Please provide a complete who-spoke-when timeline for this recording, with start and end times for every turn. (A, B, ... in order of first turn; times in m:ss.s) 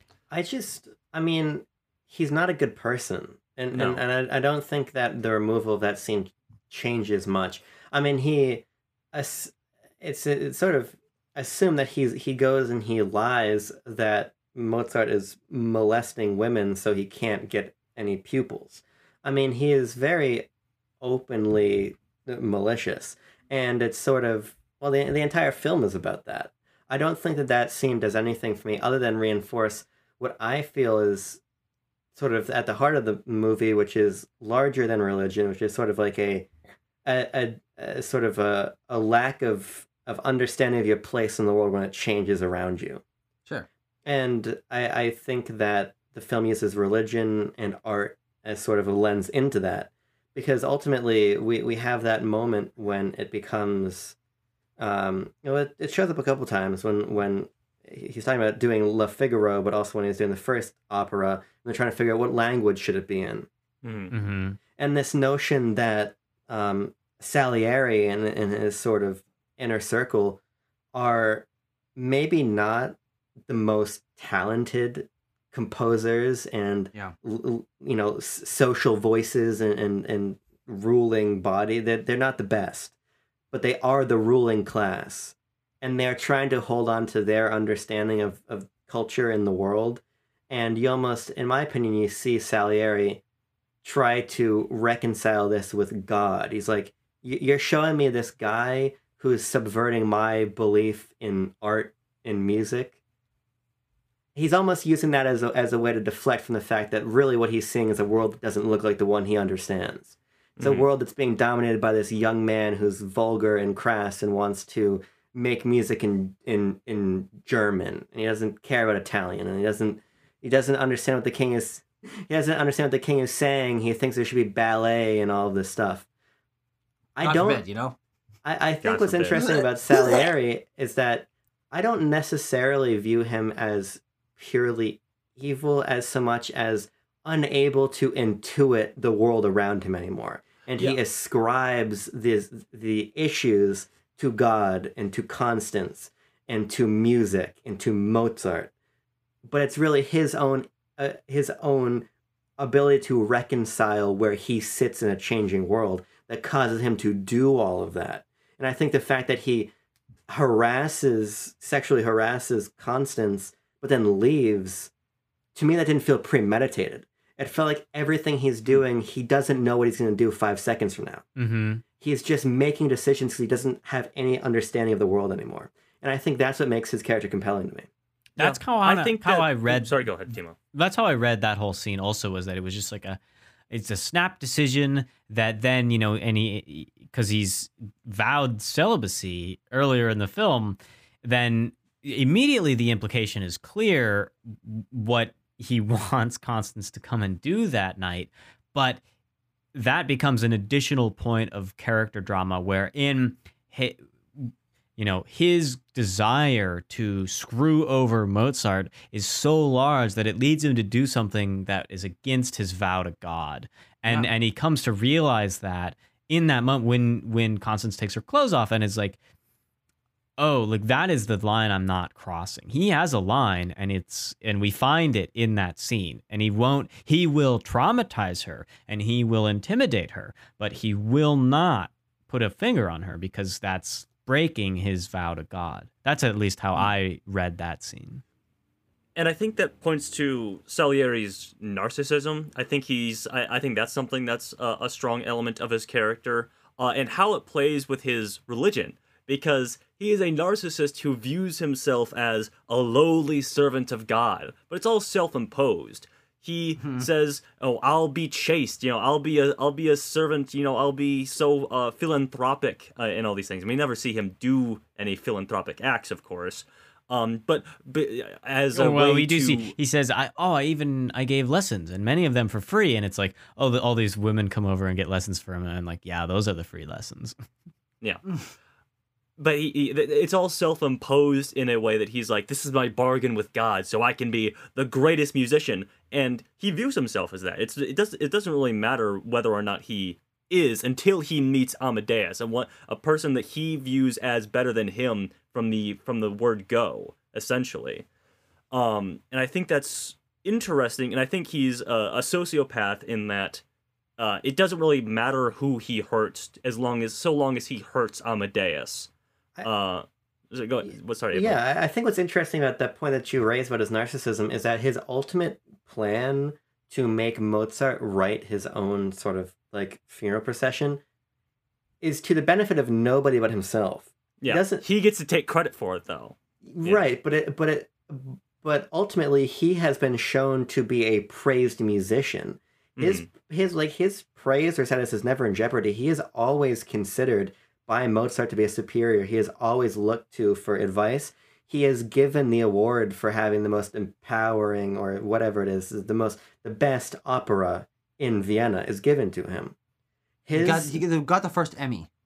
0:00.3-0:20.5 A
0:03.7-0:04.0 B
0:21.0-0:31.4 A
0:32.1-0:36.5 A
0:37.0-0:43.0 A
0:44.0-0:54.2 A
0:54.8-1:03.5 A
1:03.8-1:04.1 B
1:04.1-1:04.6 C
1:04.8-1:10.4 A
1:10.9-1:22.9 A
1:23.5-1:33.2 A
1:33.8-1:42.9 A
1:44.3-2:06.0 A
1:50.6-1:50.9 B
2:07.2-2:07.6 A
2:07.2-2:08.0 D
2:08.4-2:28.7 A
2:08.8-2:09.4 B
2:09.3-2:10.2 D
2:29.5-2:32.1 A
2:32.6-2:39.7 A
2:40.3-2:44.9 A
2:45.5-2:51.2 A
2:51.4-2:51.8 C
2:52.0-2:57.9 A
2:58.4-3:00.0 C
2:58.4-3:00.6 B
3:00.7-3:03.2 C
3:03.7-3:19.0 C
3:19.7-3:39.2 C
3:40.4-3:58.2 C
3:59.2-4:29.7 B
4:16.8-4:17.1 D
4:28.7-4:37.4 C
4:39.4-4:58.0 B
4:58.7-5:03.6 B
5:04.2-5:09.1 B
5:09.6-5:11.6 B
5:11.3-5:21.0 A
5:22.0-5:24.8 A
5:24.4-5:27.0 B
5:26.6-5:49.7 A
5:33.0-5:33.3 B
5:50.4-5:51.0 A
5:50.5-5:52.1 D